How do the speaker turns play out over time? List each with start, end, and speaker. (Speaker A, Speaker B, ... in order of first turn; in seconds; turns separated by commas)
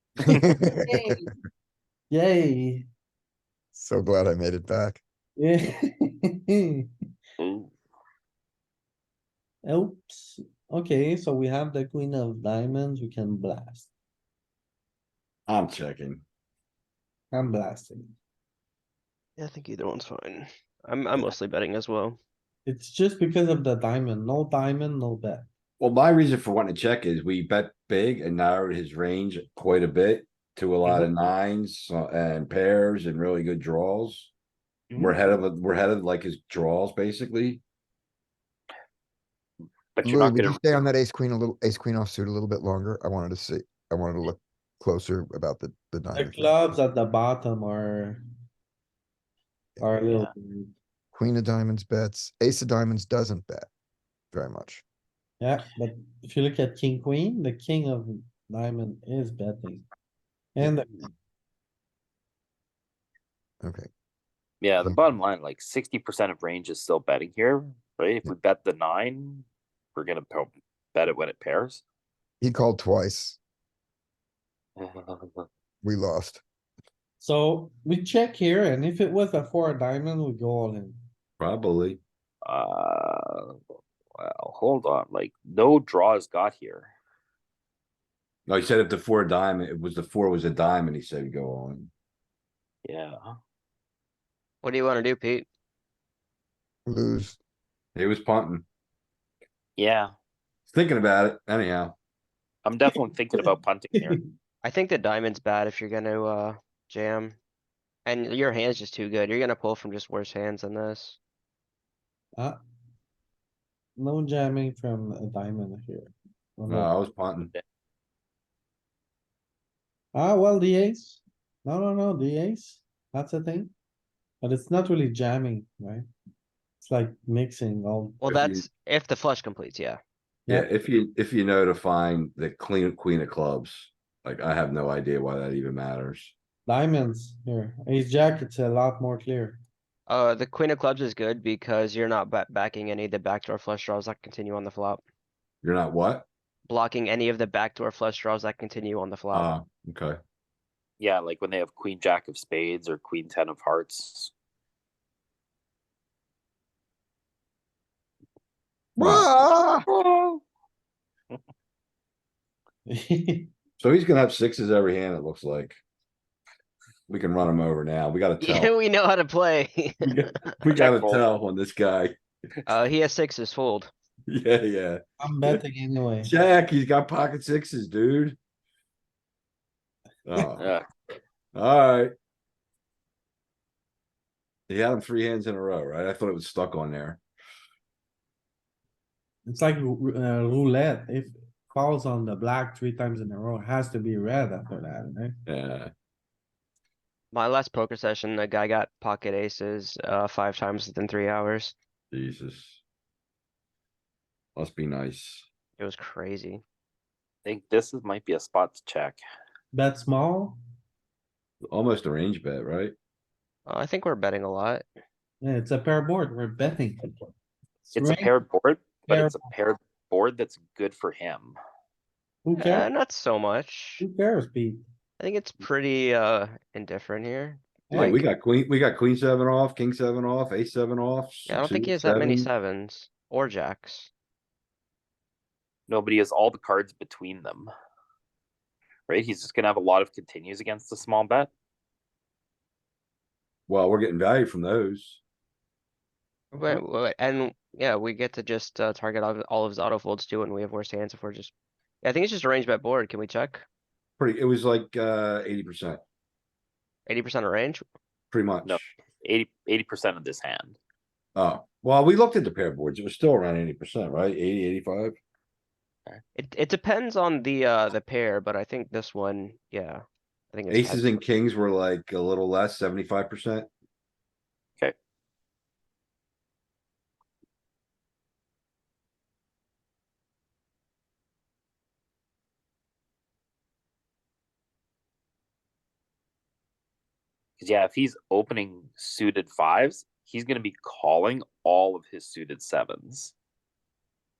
Speaker A: 0.2-1.3, Speaker B: 2.1-2.8, Speaker A: 3.7-5.0, Speaker C: 7.4-7.7, Speaker B: 9.7-13.8, Speaker D: 15.5-16.2, Speaker B: 17.3-18.0, Speaker E: 19.4-22.2, Speaker B: 22.6-25.4, Speaker D: 25.8-34.3, Speaker C: 34.9-35.4, Speaker D: 34.9-37.6, Speaker C: 40.0-40.6, Speaker A: 40.0-46.5, Speaker B: 46.1-48.1, Speaker B: 49.9-50.7, Speaker C: 50.0-50.3, Speaker A: 51.1-53.7, Speaker A: 54.3-54.8, Speaker B: 55.4-59.8, Speaker A: 63.6-63.9, Speaker C: 64.6-71.8, Speaker A: 72.4-73.4, Speaker C: 74.8-75.5, Speaker A: 75.8-76.4, Speaker B: 77.2-80.9, Speaker D: 81.4-82.0, Speaker C: 82.5-83.6, Speaker C: 84.1-86.9, Speaker D: 88.5-91.9, Speaker C: 92.8-93.3, Speaker E: 94.6-95.5, Speaker A: 96.8-97.4, Speaker D: 97.9-98.7, Speaker C: 99.8-100.1, Speaker D: 100.7-102.0, Speaker C: 102.6-104.2, Speaker E: 104.6-107.4, Speaker E: 108.0-111.2, Speaker B: 114.0-116.1, Speaker B: 116.6-116.9, Speaker D: 116.7-117.5, Speaker B: 120.1-123.7, Speaker B: 124.4-126.0, Speaker B: 126.9-128.2, Speaker E: 128.2-130.0, Speaker D: 128.2-128.6, Speaker D: 130.5-136.3, Speaker B: 136.7-139.6, Speaker E: 140.1-145.0, Speaker D: 145.6-146.3, Speaker E: 146.7-149.5, Speaker D: 149.3-150.2, Speaker C: 151.0-154.3, Speaker D: 159.0-159.9, Speaker A: 159.0-159.3, Speaker C: 159.9-160.4, Speaker D: 163.8-165.8, Speaker D: 167.1-168.7, Speaker E: 168.4-170.5, Speaker D: 170.0-172.2, Speaker C: 170.7-171.2, Speaker E: 172.7-173.9, Speaker D: 174.3-175.7, Speaker B: 175.3-176.2, Speaker D: 176.2-178.4, Speaker D: 180.2-180.7, Speaker C: 180.6-180.9, Speaker D: 181.5-182.1, Speaker D: 184.7-187.2, Speaker B: 189.5-195.3, Speaker D: 195.4-195.9, Speaker E: 197.3-201.7, Speaker D: 202.1-202.8, Speaker D: 204.6-205.5, Speaker E: 205.8-206.6, Speaker C: 207.4-209.2, Speaker B: 209.7-210.5, Speaker D: 211.6-212.9, Speaker E: 213.7-214.8, Speaker B: 215.4-216.9, Speaker C: 217.9-221.6, Speaker B: 222.4-222.8, Speaker E: 222.5-224.1, Speaker B: 224.0-224.8, Speaker E: 225.2-228.2, Speaker D: 227.9-232.5, Speaker E: 231.5-234.1, Speaker C: 235.9-237.7, Speaker C: 239.1-241.5, Speaker D: 243.7-245.2, Speaker E: 246.5-253.6, Speaker D: 254.2-256.0, Speaker E: 257.1-257.8, Speaker D: 258.3-258.9, Speaker C: 258.6-260.8, Speaker D: 261.3-265.1, Speaker E: 266.4-271.2, Speaker D: 270.7-273.7, Speaker C: 287.6-293.3